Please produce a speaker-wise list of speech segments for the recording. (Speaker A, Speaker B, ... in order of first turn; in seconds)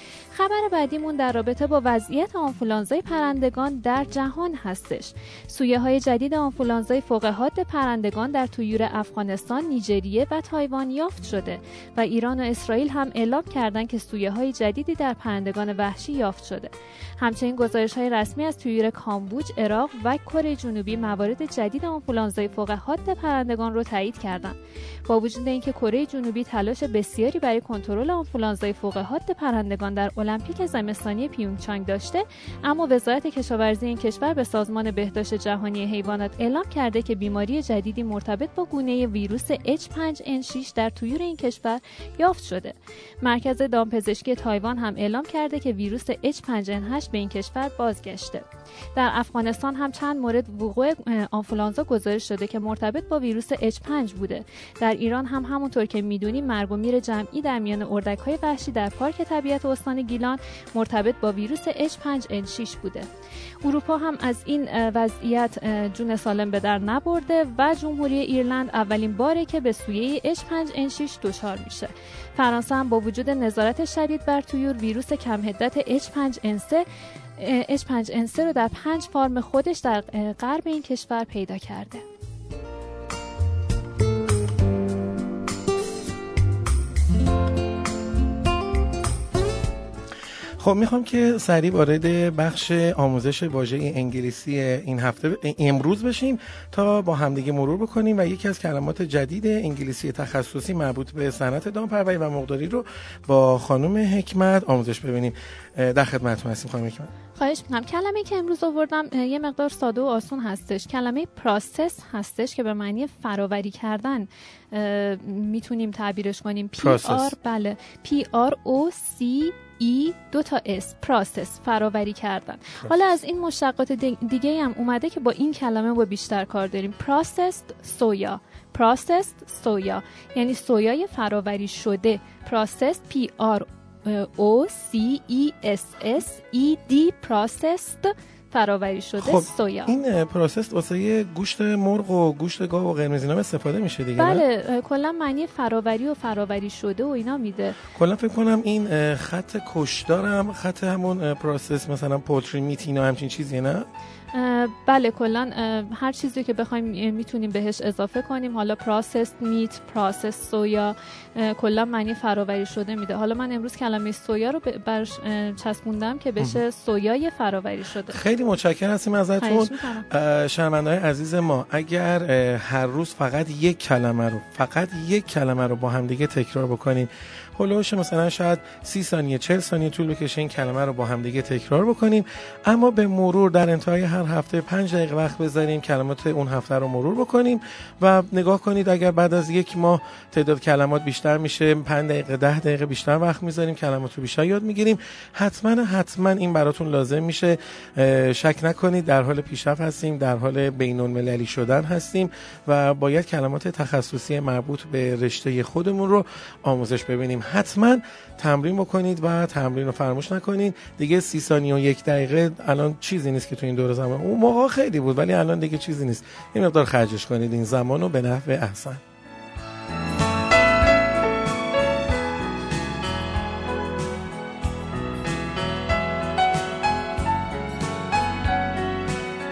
Speaker A: 0.3-63.1, 63.6-76.8, 77.4-82.0, 107.4-139.9, 144.2-147.8, 154.3-168.2, 169.4-170.1
Speaker B: 90.6-107.1, 116.8-117.3, 139.2-144.4, 147.9-153.9, 168.1-219.0